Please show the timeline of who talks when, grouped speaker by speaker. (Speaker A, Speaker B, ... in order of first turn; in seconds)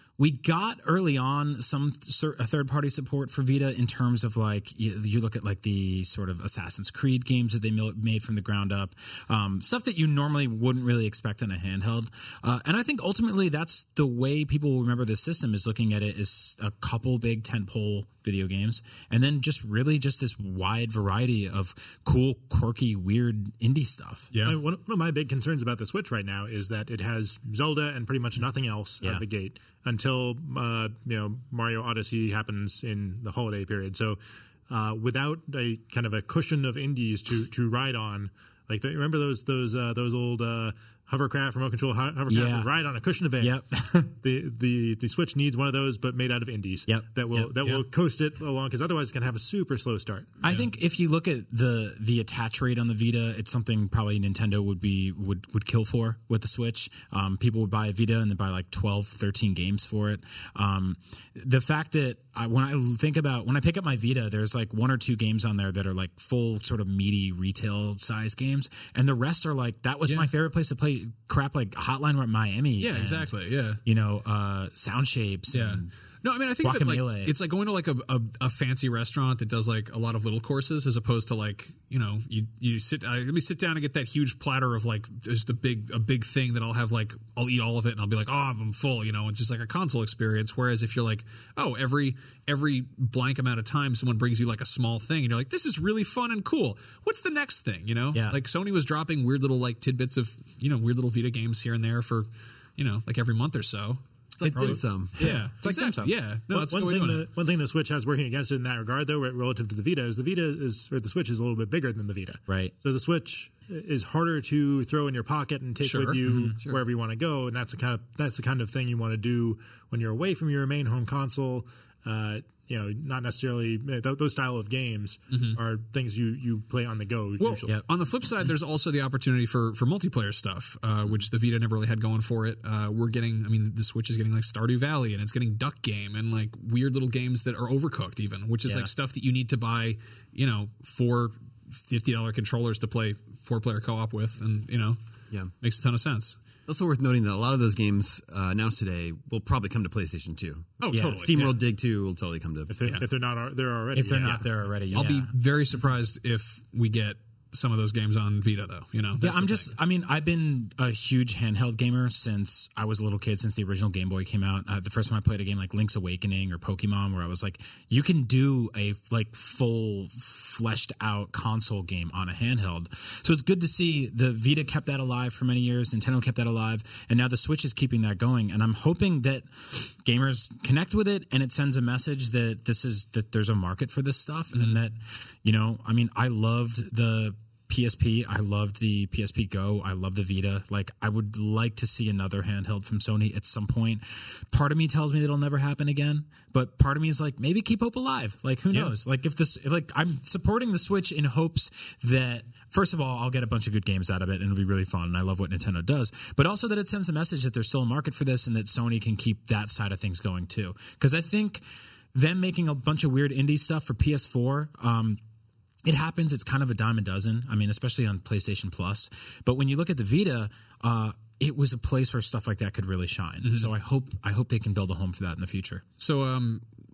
Speaker A: 0.2-24.3, 42.3-42.7, 43.4-44.1, 46.9-47.5, 50.4-75.9, 76.6-77.3, 98.1-98.4, 104.4-106.2, 112.5-112.7, 116.2-116.6, 150.9-151.3, 153.9-155.3, 159.2-215.2, 215.8-225.8
Speaker B: 24.3-24.6, 72.8-73.8, 75.5-107.2, 115.8-116.2, 125.3-125.6, 127.4-145.0, 145.6-146.4, 150.8-151.6, 154.9-159.7, 223.4-223.7, 226.0-226.6
Speaker C: 24.4-43.6, 44.2-50.3, 106.5-127.7, 152.7-154.4
Speaker D: 104.4-105.3, 146.7-152.7